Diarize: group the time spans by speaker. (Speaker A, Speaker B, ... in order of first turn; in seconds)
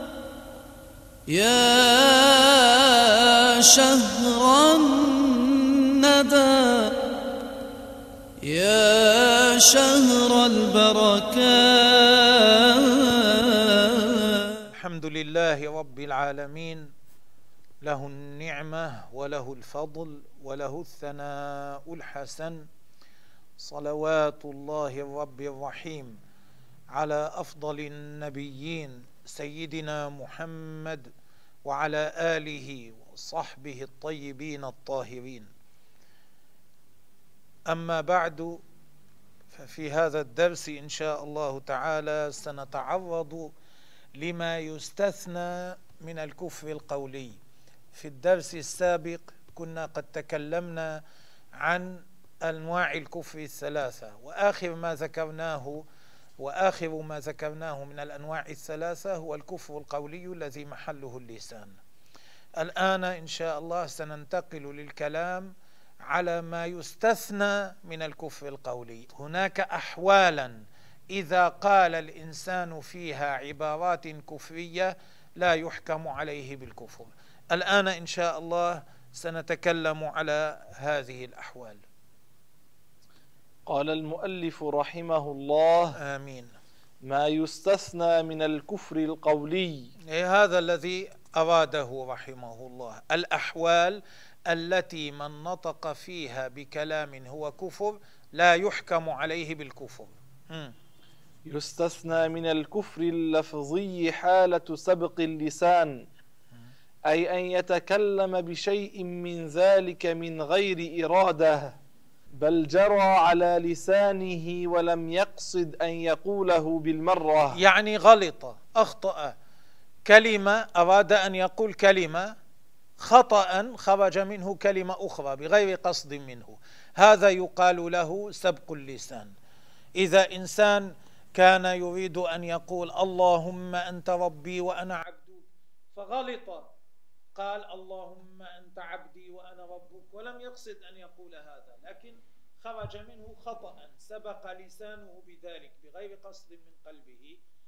Speaker A: 1.3-6.9, 8.4-14.3
Speaker B: 14.7-16.9, 17.8-22.7, 23.6-26.2, 26.9-31.1, 31.6-35.5, 37.7-38.6, 39.5-43.5, 44.1-47.4, 47.9-51.0, 51.6-55.8, 56.4-61.8, 62.6-65.5, 66.1-81.8, 86.0-86.5, 90.1-100.7, 117.5-119.3, 120.0-122.3, 123.0-129.3, 130.0-136.7, 137.3-147.4
Speaker C: 83.7-85.9, 87.0-89.9, 101.5-106.0, 107.1-111.8, 112.4-117.6